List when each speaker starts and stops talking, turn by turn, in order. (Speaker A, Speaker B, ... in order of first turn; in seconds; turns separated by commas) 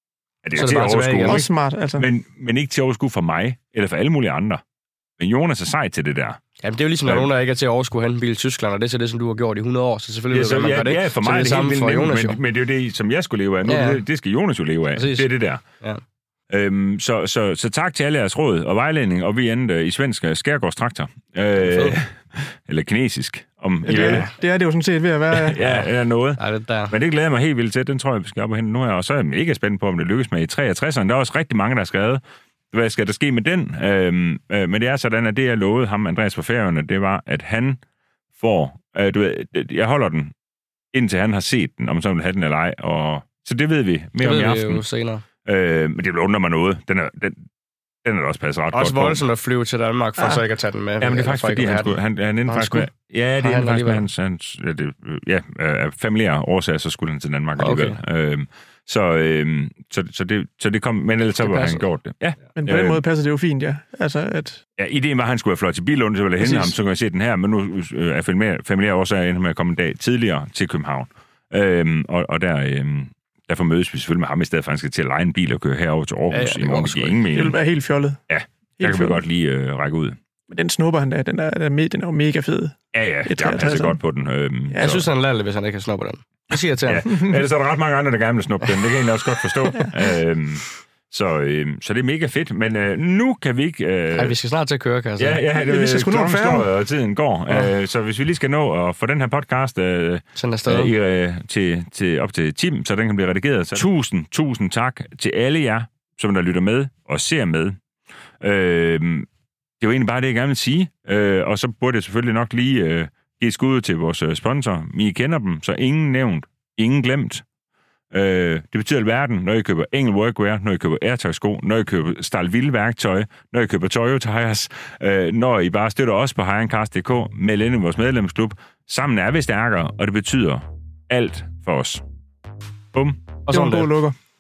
Speaker A: 0.4-4.6, Speaker B: 0.6-1.4, Speaker C: 1.2-2.0, Speaker A: 5.2-6.4, Speaker B: 6.6-12.4, Speaker A: 10.3-15.6, Speaker B: 13.6-14.0, Speaker B: 14.9-15.3, Speaker A: 16.5-24.2, Speaker B: 21.6-22.0, Speaker C: 23.8-25.6, Speaker B: 23.9-24.3, Speaker A: 25.3-32.2, Speaker B: 25.6-26.9, Speaker A: 32.7-37.8, Speaker A: 38.4-40.3, Speaker A: 40.9-44.8, Speaker B: 44.2-45.2, Speaker A: 45.4-47.4, Speaker A: 48.0-49.2, Speaker B: 48.7-52.0, Speaker A: 51.0-63.0, Speaker B: 52.5-54.0, Speaker B: 57.6-58.0, Speaker B: 61.4-61.8, Speaker C: 62.6-64.6, Speaker A: 64.8-77.6, Speaker C: 66.4-66.7, Speaker B: 76.3-77.2, Speaker C: 77.3-78.2, Speaker A: 78.3-80.2, Speaker C: 78.8-79.2, Speaker C: 80.5-84.0, Speaker A: 82.9-85.0, Speaker B: 84.8-87.1, Speaker A: 86.9-94.4, Speaker C: 87.0-87.3, Speaker B: 94.1-95.4, Speaker A: 95.2-107.8, Speaker C: 95.5-96.7, Speaker B: 100.3-100.9, Speaker A: 108.4-109.3, Speaker A: 109.8-117.4, Speaker A: 118.1-132.0, Speaker A: 132.9-133.2, Speaker B: 133.5-133.9, Speaker C: 133.5-134.1